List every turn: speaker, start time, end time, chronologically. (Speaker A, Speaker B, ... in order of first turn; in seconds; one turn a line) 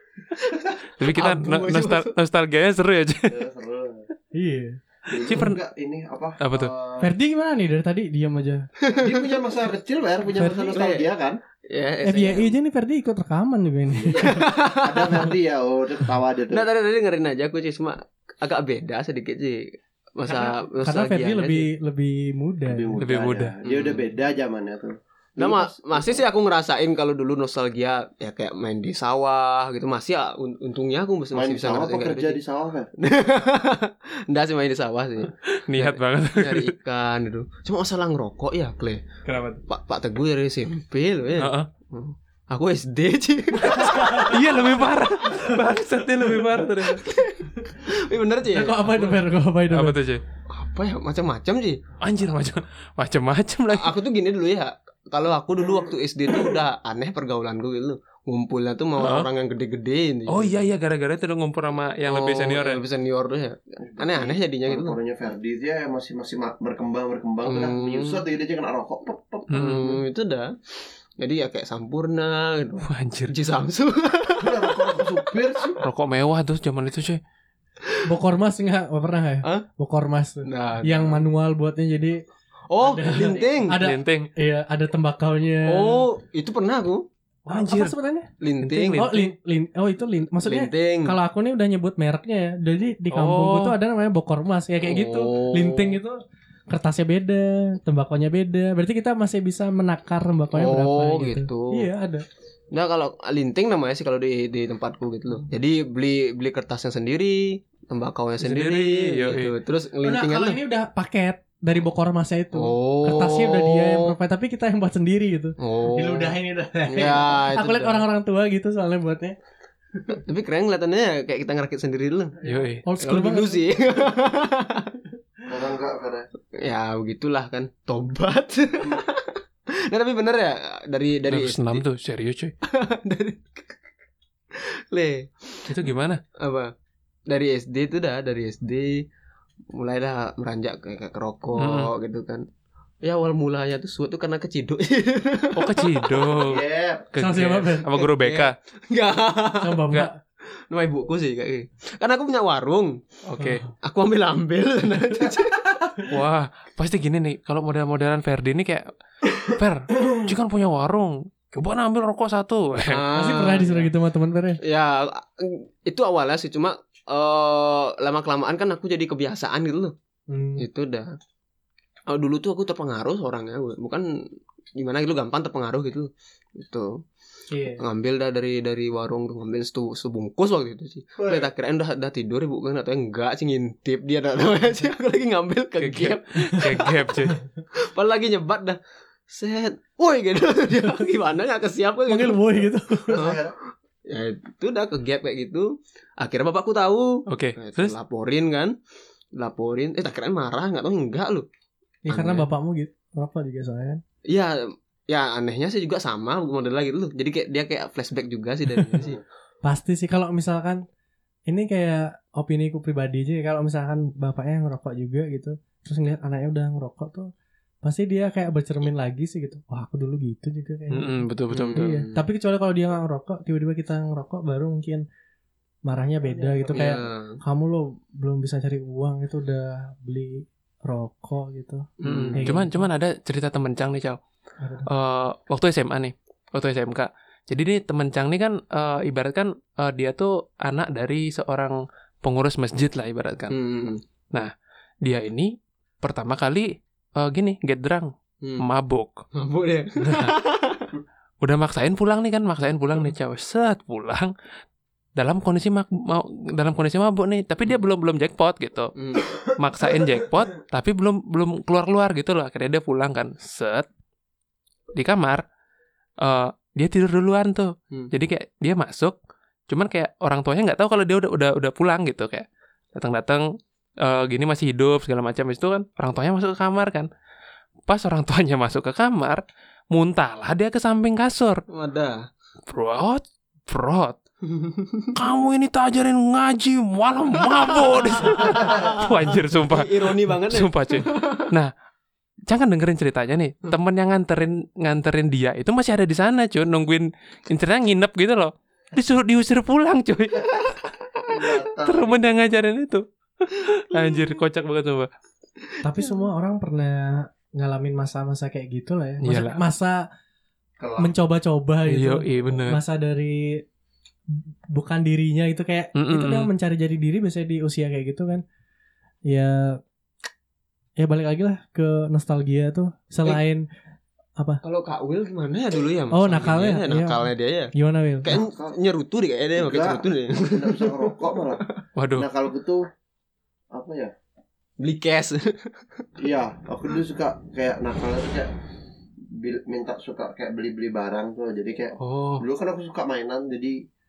Speaker A: 0.4-2.1
Speaker B: 1.0-3.4
Speaker C: 3.3-4.1
Speaker D: 4.3-4.8
Speaker C: 5.1-7.1
Speaker B: 5.2-5.6
Speaker B: 6.4-6.7
Speaker D: 7.0-8.7
Speaker A: 8.8-9.3
Speaker C: 8.9-11.4
Speaker D: 10.3-10.7
Speaker A: 10.7-11.1
Speaker A: 11.7-12.5
Speaker D: 12.0-14.4
Speaker C: 13.9-16.7
Speaker A: 14.2-15.3
Speaker A: 16.5-21.7
Speaker D: 20.2-23.0
Speaker C: 22.7-26.2
Speaker B: 23.0-23.5
Speaker A: 23.6-24.1
Speaker A: 25.4-32.4
Speaker C: 31.3-32.9
Speaker A: 33.0-39.0
Speaker B: 35.5-36.7
Speaker B: 39.2-39.6
Speaker A: 39.7-44.8
Speaker B: 41.4-41.7
Speaker B: 43.7-47.1
Speaker D: 43.7-44.3
Speaker A: 46.8-49.2
Speaker D: 48.5-50.0
Speaker B: 49.7-50.2
Speaker A: 50.5-51.8
Speaker B: 52.0-54.0
Speaker A: 53.7-60.7
Speaker B: 59.0-59.3
Speaker B: 60.3-62.8
Speaker A: 62.1-65.0
Speaker C: 63.8-69.5
Speaker A: 67.5-68.2
Speaker B: 69.5-70.0
Speaker A: 69.5-70.6
Speaker A: 71.2-75.3
Speaker B: 72.8-73.3
Speaker C: 74.4-75.8
Speaker B: 75.8-77.2
Speaker D: 78.0-82.2
Speaker A: 80.4-81.2
Speaker A: 82.7-83.8
Speaker D: 82.8-86.0
Speaker C: 83.1-83.6
Speaker B: 83.7-84.3
Speaker A: 85.7-87.1
Speaker B: 87.5-87.9
Speaker D: 87.5-88.3
Speaker A: 88.4-89.1
Speaker B: 88.6-89.3
Speaker D: 88.9-102.2
Speaker A: 90.4-91.2
Speaker B: 93.1-93.8
Speaker A: 94.8-96.0
Speaker A: 100.5-101.9
Speaker A: 102.7-110.6
Speaker B: 108.4-109.5
Speaker D: 110.0-119.3
Speaker A: 112.5-114.2
Speaker A: 115.6-116.3
Speaker A: 116.9-118.0
Speaker A: 120.1-122.4
Speaker B: 122.4-122.8
Speaker D: 122.5-123.7
Speaker A: 123.0-124.9
Speaker C: 125.5-126.3
Speaker A: 126.5-131.8
Speaker B: 131.3-132.5
Speaker A: 132.6-133.7
Speaker A: 134.5-136.7
Speaker B: 135.7-136.2
Speaker A: 137.3-139.1
Speaker A: 139.7-142.5
Speaker B: 141.6-141.9
Speaker A: 143.0-146.4
Speaker B: 145.5-148.5
Speaker C: 146.4-147.1
Speaker D: 147.2-147.9
Speaker A: 147.9-149.9
Speaker D: 149.6-150.2
Speaker A: 150.7-153.0
Speaker B: 153.2-153.6
Speaker D: 153.4-153.7
Speaker A: 153.8-156.0
Speaker B: 156.1-163.0
Speaker A: 162.9-163.9
Speaker D: 163.1-164.6
Speaker A: 164.6-169.9
Speaker D: 170.3-170.7
Speaker A: 170.6-171.1
Speaker A: 172.1-177.0
Speaker D: 177.5-177.8
Speaker A: 177.7-187.1
Speaker B: 185.8-187.4
Speaker A: 187.7-193.4
Speaker D: 192.1-193.2
Speaker C: 193.1-193.5
Speaker A: 194.1-198.7
Speaker B: 197.3-197.9
Speaker A: 199.3-201.5
Speaker D: 202.0-204.0
Speaker A: 202.1-202.5
Speaker A: 204.3-209.2
Speaker D: 209.6-210.8
Speaker D: 211.5-217.3
Speaker D: 217.8-225.0
Speaker B: 220.9-221.9
Speaker A: 221.5-222.3
Speaker D: 225.8-232.8
Speaker A: 226.7-227.4
Speaker A: 232.0-232.6
Speaker B: 232.0-234.2
Speaker D: 234.6-234.9
Speaker B: 234.8-243.5
Speaker A: 243.5-244.0
Speaker B: 245.0-249.2
Speaker A: 248.4-248.7
Speaker A: 249.3-250.9
Speaker B: 250.0-250.3
Speaker B: 251.4-254.3
Speaker B: 255.2-263.9
Speaker A: 258.9-259.4
Speaker B: 264.9-265.4
Speaker B: 266.2-269.2
Speaker B: 269.7-277.1
Speaker B: 277.9-281.6
Speaker A: 281.7-282.3
Speaker B: 282.7-284.2
Speaker A: 284.4-285.1
Speaker B: 285.1-291.7
Speaker A: 287.3-291.5
Speaker B: 292.5-300.8
Speaker C: 301.3-302.4
Speaker B: 301.8-305.1
Speaker A: 303.9-304.3
Speaker D: 305.8-310.0
Speaker B: 309.2-309.6
Speaker C: 310.8-311.1
Speaker D: 311.0-313.6
Speaker B: 311.9-312.8
Speaker D: 314.4-318.4
Speaker B: 315.9-316.5
Speaker D: 319.3-319.8
Speaker D: 321.0-323.6
Speaker A: 324.6-327.7
Speaker D: 326.1-328.3
Speaker A: 328.2-331.7
Speaker C: 328.3-328.7
Speaker C: 329.6-331.6
Speaker B: 332.0-332.3
Speaker C: 332.1-332.8
Speaker C: 333.7-334.1
Speaker A: 334.8-336.1
Speaker C: 336.2-338.5
Speaker C: 339.3-343.8
Speaker B: 342.0-342.4